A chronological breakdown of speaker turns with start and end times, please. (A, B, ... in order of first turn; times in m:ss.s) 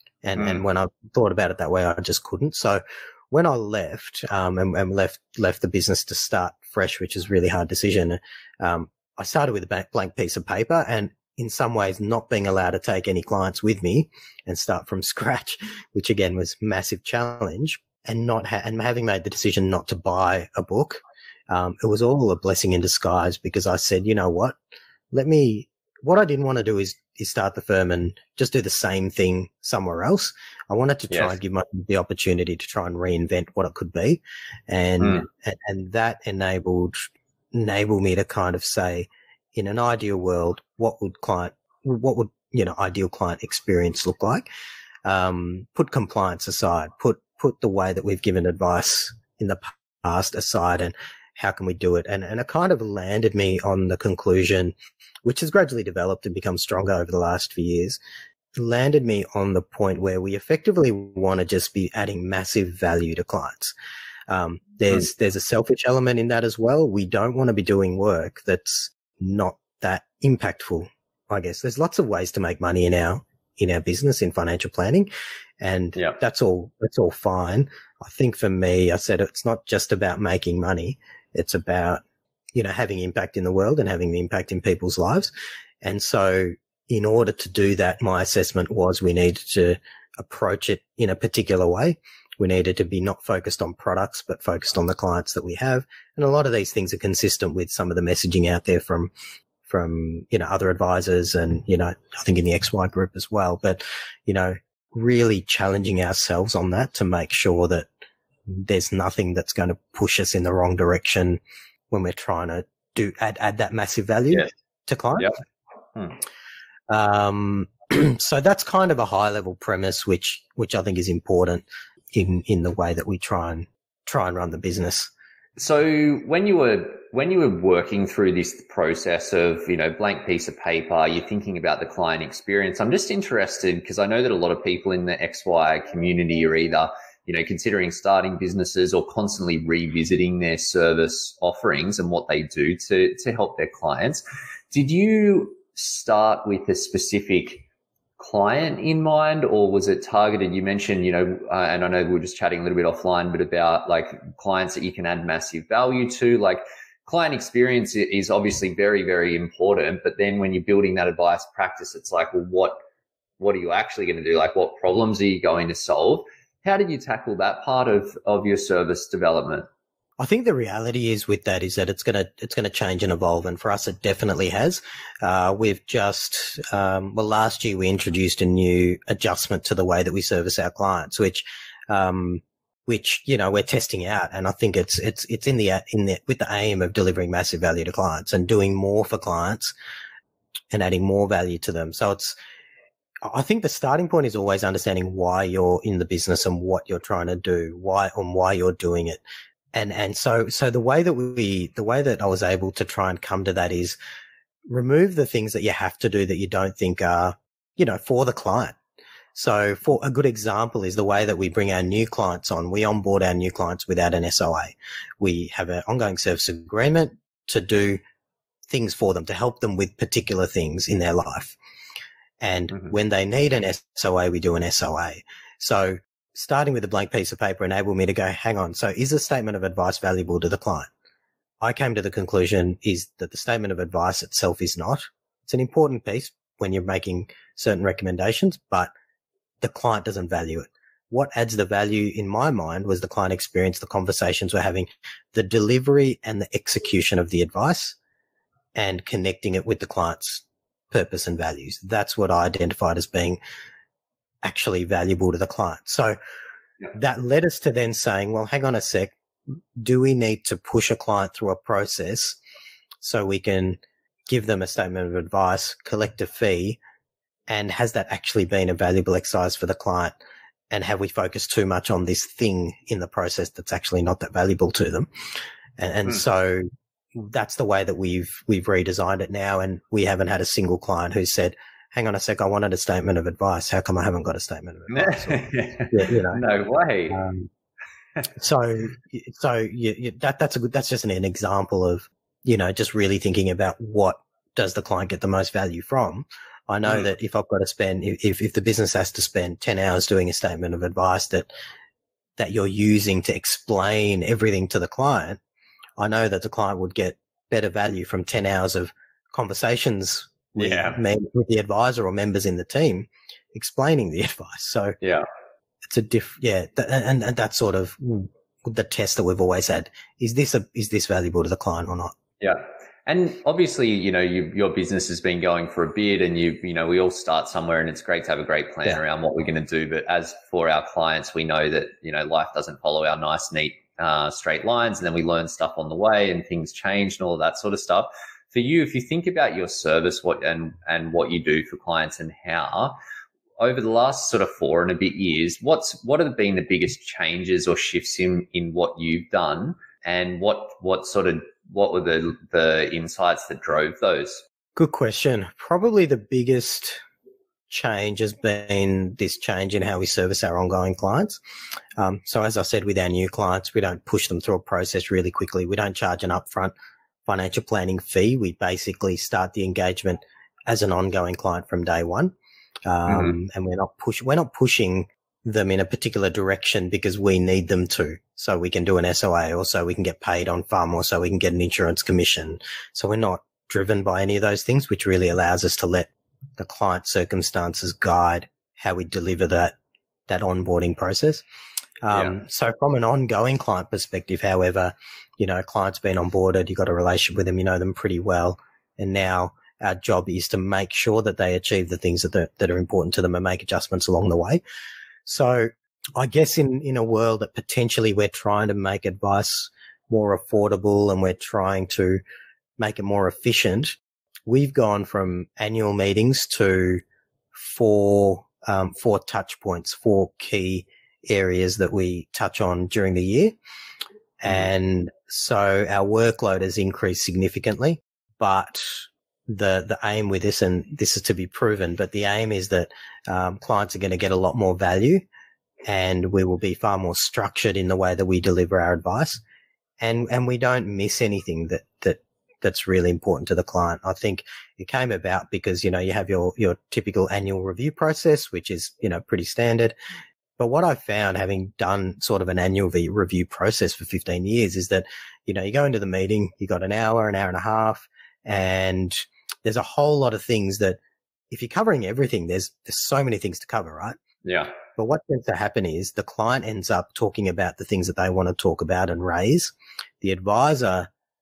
0:00.2-0:24.6 A
0:00.4-0:00.6 B
0:25.1-0:44.4 A
0:31.1-0:31.4 B
0:35.0-0:35.2 B
0:45.0-0:58.0 A
0:58.6-1:03.7 A
1:04.3-1:15.1 A
1:15.6-1:22.0 A
1:22.5-1:39.1 A
1:39.6-1:47.9 A
1:48.5-1:55.3 A
1:56.9-2:05.1 A
2:05.6-2:27.6 B
2:28.2-2:42.8 B
2:43.4-2:49.7 B
2:50.2-3:09.7 A
3:10.7-3:12.4 A
3:13.2-3:19.2 A
3:19.7-3:24.0 A
3:24.7-3:28.8 A
3:29.3-3:38.0 A
3:38.7-3:41.6 A
3:42.4-3:50.9 A
3:51.6-3:58.9 A
3:59.6-4:08.0 A
4:08.7-4:13.4 A
4:14.4-4:16.2 A
4:16.9-4:19.1 A
4:19.8-4:22.4 A
4:23.0-4:26.8 A
4:27.5-4:30.1 A
4:30.7-4:35.1 A
4:35.8-4:46.4 A
4:44.9-4:47.2 B
4:47.1-4:47.5 A
4:48.3-5:01.5 A
5:02.4-5:05.4 A
5:06.0-5:15.0 A
5:10.6-5:11.0 B
5:15.8-5:22.1 A
5:22.4-5:43.0 B
5:43.6-5:54.4 B
5:54.8-5:57.0 A
5:57.7-6:01.4 A
6:02.0-6:06.7 A
6:07.2-6:12.3 A
6:12.8-6:29.8 A
6:13.1-6:13.4 B
6:30.3-6:31.4 A
6:32.0-6:44.6 A
6:32.1-6:32.3 B
6:45.2-6:52.2 A
6:52.8-6:57.0 A
6:57.5-7:03.6 A
7:04.4-7:15.2 A
7:15.9-7:19.4 A
7:20.0-7:29.9 A
7:30.6-7:41.0 A
7:41.5-7:44.2 A
7:44.4-7:44.7 B
7:45.0-7:51.1 A